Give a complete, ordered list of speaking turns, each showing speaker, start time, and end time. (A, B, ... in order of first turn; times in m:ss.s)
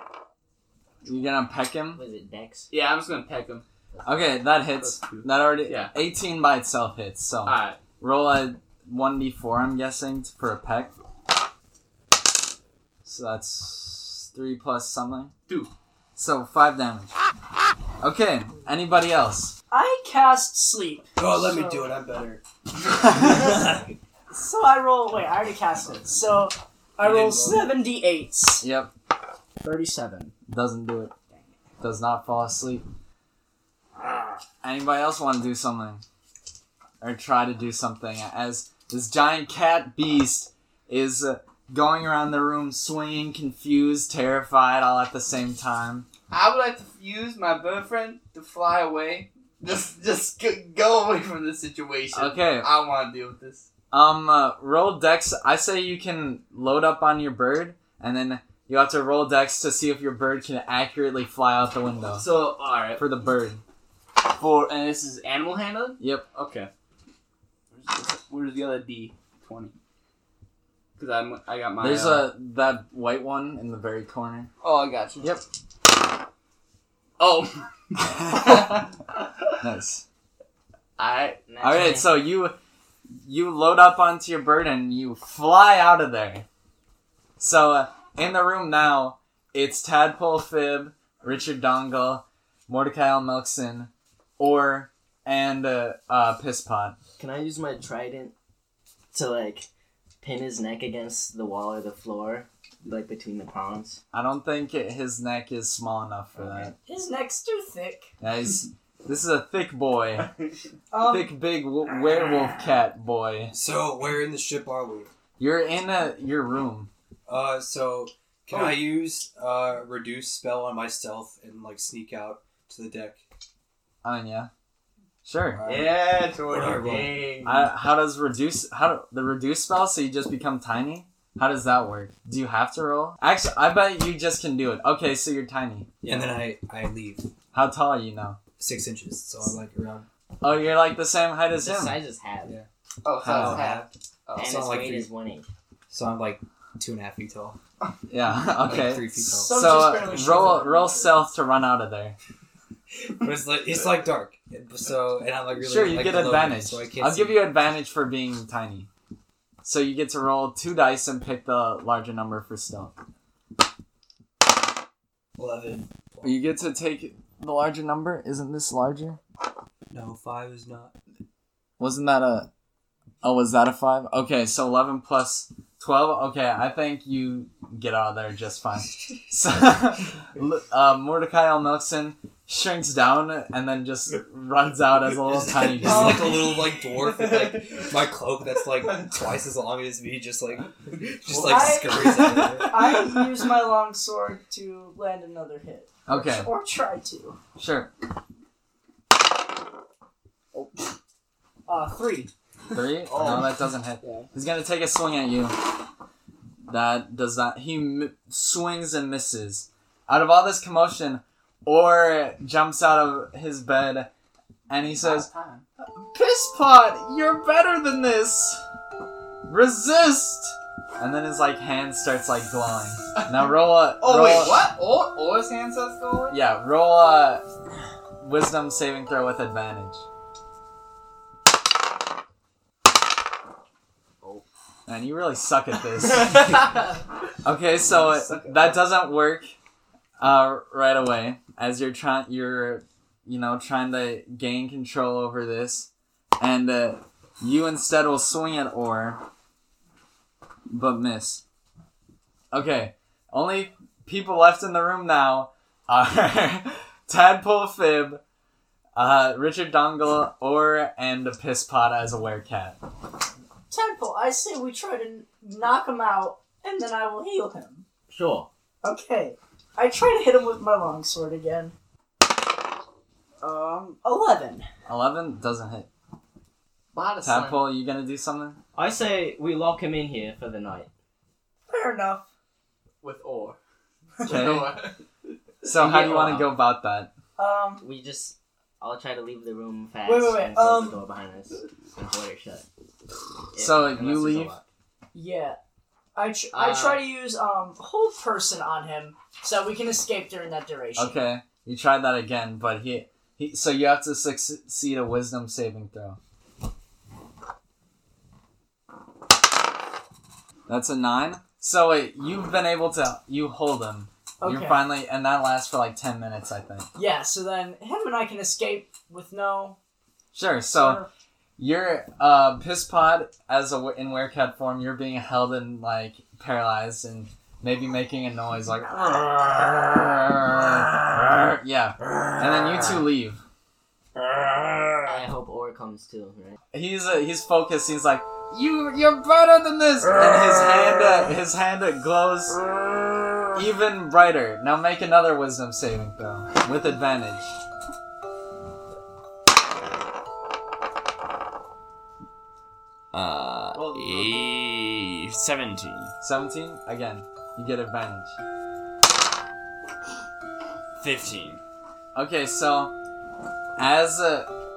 0:01.0-0:02.0 A
0:01.9-0:02.7 B
0:02.7-0:03.6 C
0:03.9-0:04.3 B
0:04.0-0:11.0 A
0:04.8-0:05.9 C
0:07.4-0:07.8 C
0:13.0-0:15.3 A
0:16.2-0:17.1 A
0:18.0-0:19.6 A
0:19.7-0:21.9 D
0:21.2-0:22.4 E
0:23.1-0:23.6 E
0:24.3-0:28.7 D
0:27.0-0:27.8 E
0:28.6-0:28.9 A
0:29.6-0:30.3 D
0:30.5-0:31.1 A
0:31.8-0:32.8 A
0:34.6-0:36.0 A
0:37.0-0:46.1 A
0:46.3-0:53.7 C
0:52.1-0:52.7 A
0:53.9-1:02.3 A
1:02.2-1:03.0 C
1:03.0-1:03.6 A
1:04.2-1:06.7 C
1:06.0-1:06.2 A
1:07.7-1:09.7 C
1:11.0-1:12.3 C
1:11.8-1:14.5 A
1:14.6-1:15.3 C
1:17.2-1:18.9 C
1:18.1-1:18.7 A
1:19.6-1:20.0 A
1:21.0-1:21.4 C
1:21.5-1:22.1 B
1:21.6-1:22.6 A
1:23.2-1:26.4 A
1:27.4-1:37.0 A
1:37.2-1:38.3 B
1:39.1-1:39.7 B
1:40.2-1:44.0 B
1:44.1-1:46.7 A
1:46.7-1:48.1 D
1:48.2-1:50.3 A
1:50.9-1:51.3 D
1:51.0-1:53.5 A
1:53.5-1:55.1 E
1:55.4-1:56.9 A
1:57.3-2:03.2 E
1:58.5-1:58.8 C
2:04.0-2:04.5 A
2:05.2-2:05.6 A
2:05.5-2:05.9 E
2:05.6-2:07.7 C
2:06.5-2:07.2 E
2:07.4-2:15.9 A
2:16.0-2:17.2 E
2:17.5-2:18.4 A
2:18.6-2:20.1 E
2:20.4-2:22.0 A
2:21.5-2:22.5 B
2:23.0-2:24.7 C
2:23.2-2:23.7 A
2:23.2-2:25.1 E
2:24.4-2:25.4 B
2:25.9-2:27.6 E
2:28.1-2:32.2 A
2:28.6-2:30.5 E
2:29.4-2:31.2 D
2:33.2-2:37.5 E
2:35.5-2:38.9 A
2:39.6-2:43.0 A
2:45.4-2:46.4 E
2:46.2-2:49.2 A
2:49.9-2:50.9 E
2:51.8-2:52.5 A
2:53.2-3:06.4 A
3:05.2-3:13.0 E
3:05.8-3:06.5 D
3:06.6-3:07.7 C
3:11.3-3:12.7 A
3:11.4-3:17.4 D
3:16.0-3:16.5 A
3:17.6-3:17.9 A
3:21.7-3:22.3 D
3:22.7-3:25.6 A
3:23.1-3:23.5 C
3:26.7-3:34.1 A
3:34.7-3:35.3 A
3:34.9-3:35.6 C
3:35.8-3:38.6 A
3:39.4-3:44.6 A
3:43.2-3:46.4 C
3:46.3-3:47.4 A
3:48.2-3:50.0 A
3:54.9-3:56.7 A
3:56.2-3:56.8 C
3:57.4-3:59.5 A
3:57.9-3:58.8 C
4:00.2-4:09.2 A
4:10.7-4:11.4 A
4:12.5-4:18.2 A
4:18.9-4:22.8 A
4:23.7-4:27.8 D
4:28.1-4:28.5 B
4:28.8-4:31.7 D
4:33.4-4:34.7 D
4:34.9-4:35.9 A
4:36.9-4:37.6 C
4:37.2-4:38.6 A
4:38.7-4:40.9 B
4:41.7-4:42.2 D
4:43.0-4:43.6 C
4:44.2-4:45.0 C
4:44.2-4:44.7 A
4:45.6-4:47.1 A
4:45.8-4:46.4 B
4:45.8-4:46.2 C
4:47.4-4:47.8 D
4:47.8-4:52.6 B
4:50.0-4:51.0 D
4:53.5-4:54.6 B
4:53.6-4:54.5 A
4:55.1-4:55.6 D
4:56.1-5:01.2 D
4:56.5-4:57.0 B
5:01.0-5:06.2 A
5:10.7-5:16.9 A
5:14.4-5:14.9 D
5:16.9-5:19.8 D
5:20.3-5:21.0 A
5:20.7-5:21.1 D
5:21.6-5:33.4 A
5:35.0-5:36.6 B
5:36.7-5:42.6 A
5:43.5-5:47.5 A
5:53.1-5:56.1 F
5:53.8-5:54.4 C
5:56.2-5:58.4 A
6:01.0-6:01.6 F
6:02.1-6:02.9 A
6:03.8-6:04.5 A